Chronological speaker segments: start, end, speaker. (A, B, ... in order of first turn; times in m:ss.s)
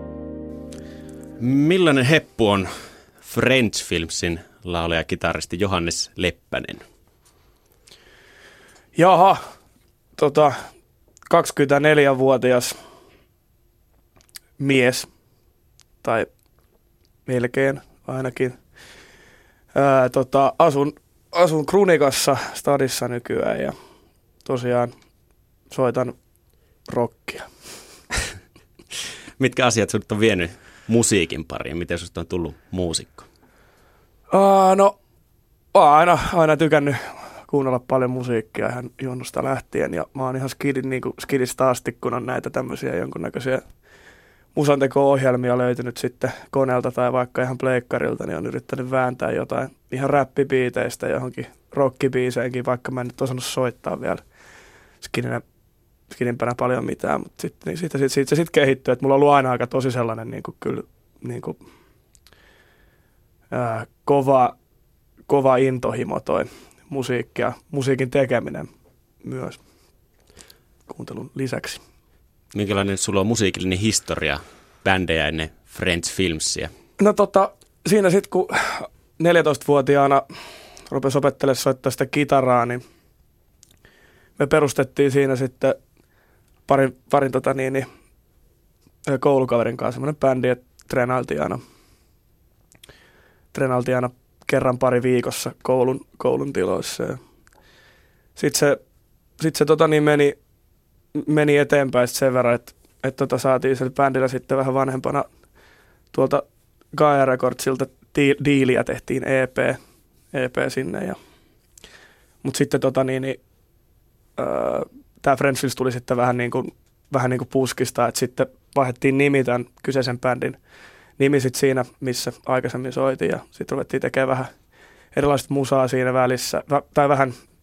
0:01.4-0:02.7 A
0:03.2-0:06.8 A
0:09.0-0:09.4 B
0:10.2-0:10.6 B
0:11.3-0:12.8 B
0:14.6-0:15.1 B
0:16.0-0:16.3 B
0:17.3-0:18.6 B
0:19.7-0:23.7 B
0:24.4-0:24.9 B
0:25.7-0:26.2 B
0:26.9-0:27.5 B
0:29.4-0:33.3 A
0:34.3-0:35.0 B
0:35.7-0:43.6 B
0:44.6-0:54.2 B
0:55.0-0:55.4 B
0:56.1-1:01.6 B
1:03.5-1:04.6 B
1:05.3-1:08.7 B
1:09.2-1:09.6 B
1:10.9-1:11.8 B
1:12.5-1:16.7 A
1:17.0-1:20.2 B
1:20.9-1:22.8 B
1:24.4-1:25.8 B
1:26.7-1:27.9 B
1:29.1-1:31.6 B
1:33.5-1:37.2 B
1:38.4-1:38.8 B
1:39.4-1:40.4 B
1:41.2-1:45.3 B
1:46.1-1:49.8 B
1:50.3-1:51.2 B
1:52.4-1:53.4 B
1:54.4-2:00.6 B
2:01.2-2:04.5 B
2:05.1-2:07.4 B